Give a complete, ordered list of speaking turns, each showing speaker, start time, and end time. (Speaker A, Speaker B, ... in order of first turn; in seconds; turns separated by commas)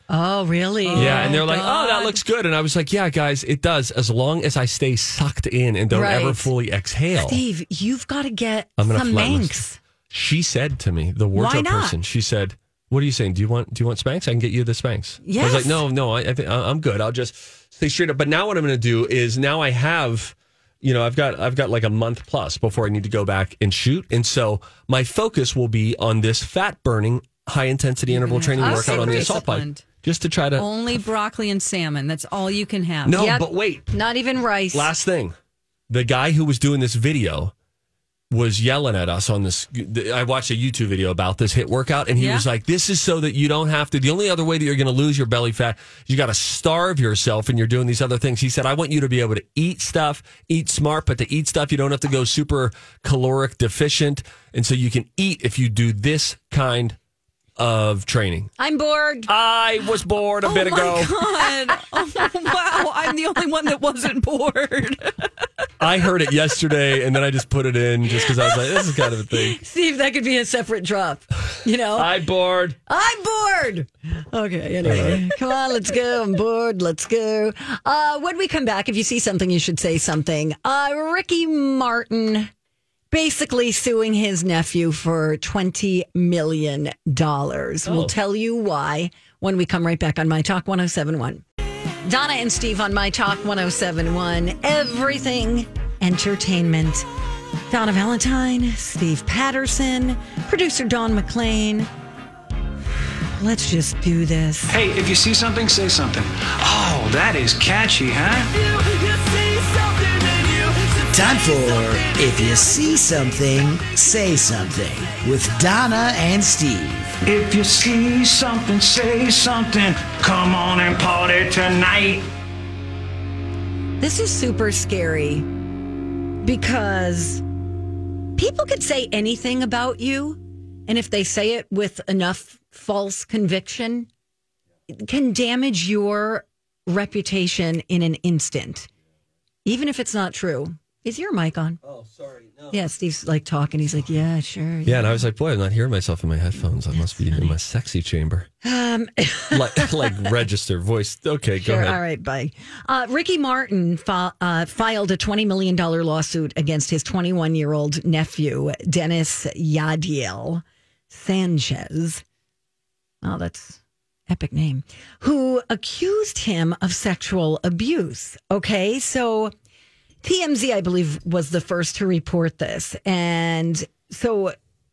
Speaker A: 0.1-2.1, Speaker B: 0.8-1.8, Speaker C: 0.9-7.4, Speaker A: 5.9-6.5, Speaker A: 7.2-9.8, Speaker C: 8.8-30.7, Speaker A: 11.3-12.0, Speaker A: 15.2-15.8, Speaker B: 28.1-29.8, Speaker A: 28.6-29.4, Speaker B: 30.6-33.2, Speaker C: 33.0-33.9, Speaker A: 33.1-34.9, Speaker C: 34.7-35.3, Speaker C: 35.9-37.5, Speaker C: 38.3-57.0, Speaker B: 42.2-42.5, Speaker C: 57.6-58.5, Speaker A: 58.6-59.3, Speaker C: 59.3-61.1, Speaker B: 60.5-65.5, Speaker C: 65.8-69.6, Speaker A: 68.2-72.2, Speaker C: 71.9-72.8, Speaker A: 72.9-82.5, Speaker C: 74.8-75.2, Speaker A: 83.1-91.4, Speaker C: 87.8-88.1, Speaker A: 92.0-97.1, Speaker A: 97.7-101.9, Speaker A: 103.3-104.8, Speaker D: 104.7-112.7, Speaker E: 111.1-117.2, Speaker D: 117.2-122.3, Speaker A: 124.0-125.5, Speaker A: 126.4-127.4, Speaker A: 128.4-134.1, Speaker A: 134.9-138.9, Speaker A: 139.7-141.8, Speaker C: 141.8-142.8, Speaker A: 142.7-145.2, Speaker C: 144.9-148.5, Speaker A: 147.0-147.6, Speaker A: 148.6-150.3, Speaker C: 149.5-152.0, Speaker A: 151.6-162.2, Speaker A: 163.2-169.5, Speaker A: 170.2-174.6